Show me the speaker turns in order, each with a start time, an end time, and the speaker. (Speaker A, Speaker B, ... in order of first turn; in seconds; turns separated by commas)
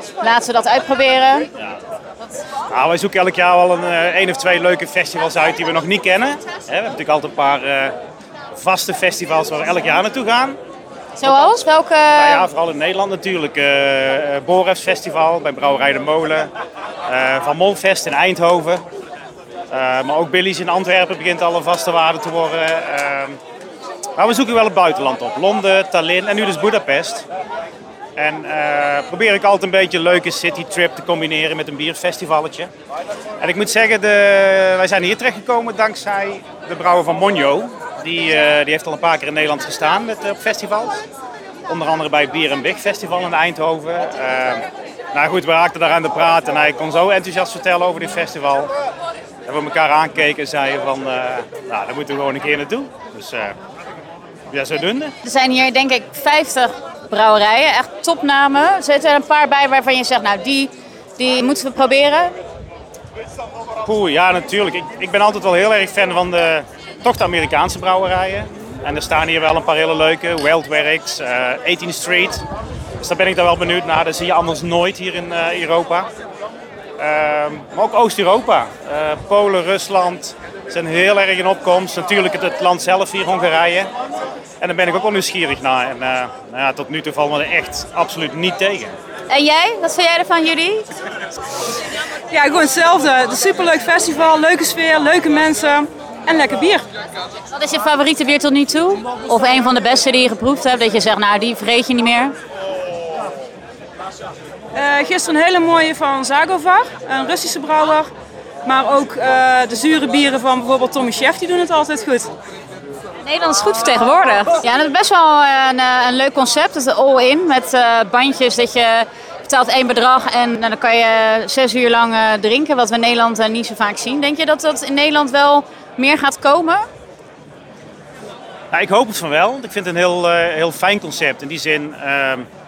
Speaker A: 0.2-1.5, Speaker B: 2.7-8.0, Speaker B: 8.6-10.6, Speaker A: 11.2-12.5, Speaker B: 11.2-16.5, Speaker B: 17.1-18.8, Speaker B: 19.7-23.4, Speaker B: 24.2-27.3, Speaker B: 28.2-32.7, Speaker B: 33.4-41.0, Speaker B: 41.7-48.7, Speaker B: 49.5-53.6, Speaker B: 54.5-55.1, Speaker A: 55.2-62.4, Speaker B: 63.9-72.4, Speaker B: 73.0-76.1, Speaker B: 77.0-83.9, Speaker B: 84.6-89.0, Speaker A: 89.3-90.9, Speaker C: 92.3-96.9, Speaker A: 97.5-102.3, Speaker C: 104.7-108.1, Speaker C: 108.6-112.3, Speaker A: 113.2-126.8, Speaker B: 128.7-132.5